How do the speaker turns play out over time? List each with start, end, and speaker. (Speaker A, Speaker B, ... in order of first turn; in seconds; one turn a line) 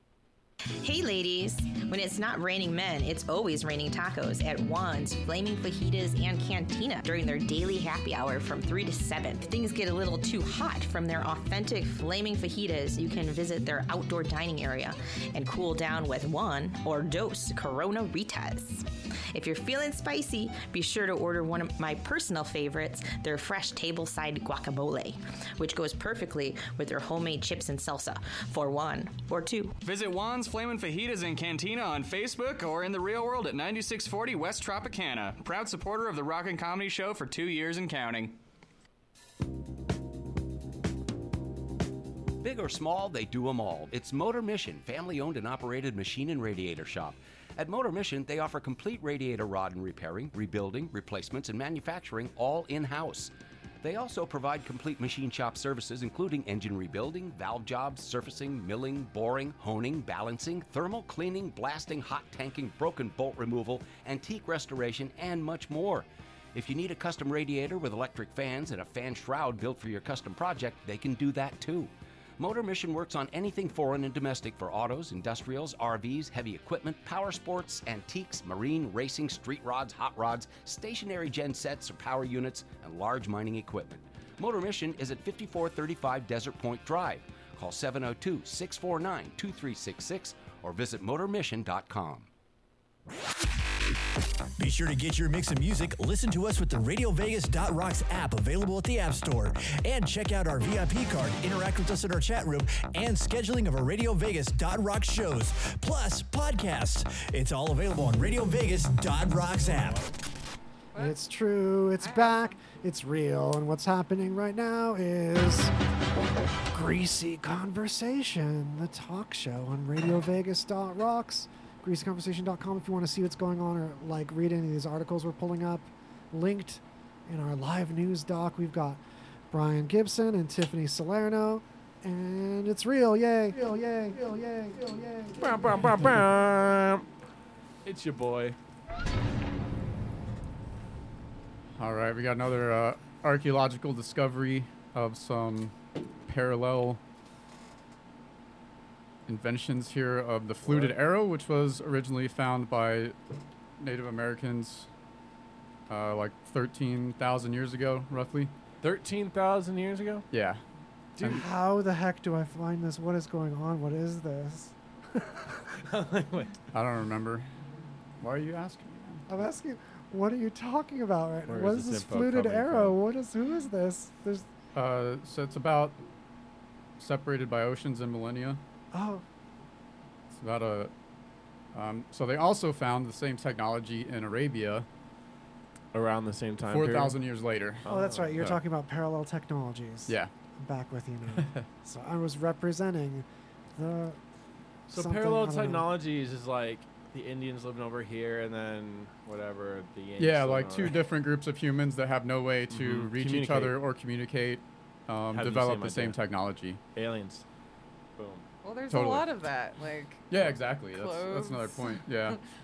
Speaker A: 0.8-29.8
Speaker B: 29.8-38.4
Speaker C: 42.4-53.3
Speaker C: 53.8-92.3
Speaker D: 94.6-110.1
Speaker E: 110.9-115.7
Speaker E: 116.7-136.1
Speaker F: 135.3-137.1
Speaker F: 137.8-138.6
Speaker G: 141.8-145.7
Speaker G: 146.2-147.0
Speaker G: 149.3-153.2
Speaker F: 150.6-151.0
Speaker G: 153.8-154.9
Speaker G: 155.9-158.5
Speaker F: 158.8-160.2
Speaker G: 160.3-160.6
Speaker F: 161.2-161.5
Speaker E: 161.3-165.7
Speaker F: 165.8-166.6
Speaker G: 166.7-167.5
Speaker G: 168.2-169.2
Speaker E: 169.3-174.4
Speaker F: 171.5-173.0
Speaker G: 174.7-176.0
Speaker G: 177.0-178.6
Speaker E: 178.9-179.2
Speaker G: 180.3-180.9
Speaker G: 181.7-184.8
Speaker F: 185.9-187.2
Speaker G: 186.6-187.8
Speaker F: 187.8-188.4
Speaker E: 187.8-193.2
Speaker E: 193.8-194.2
Speaker F: 194.9-201.0
Speaker E: 194.9-195.9
Speaker G: 200.2-206.8
Speaker F: 202.7-203.8
Speaker F: 205.3-206.2
Speaker F: 206.9-207.4
Speaker F: 208.2-208.4
Speaker H: 208.6-212.4
Speaker G: 208.9-209.3
Speaker G: 210.3-212.4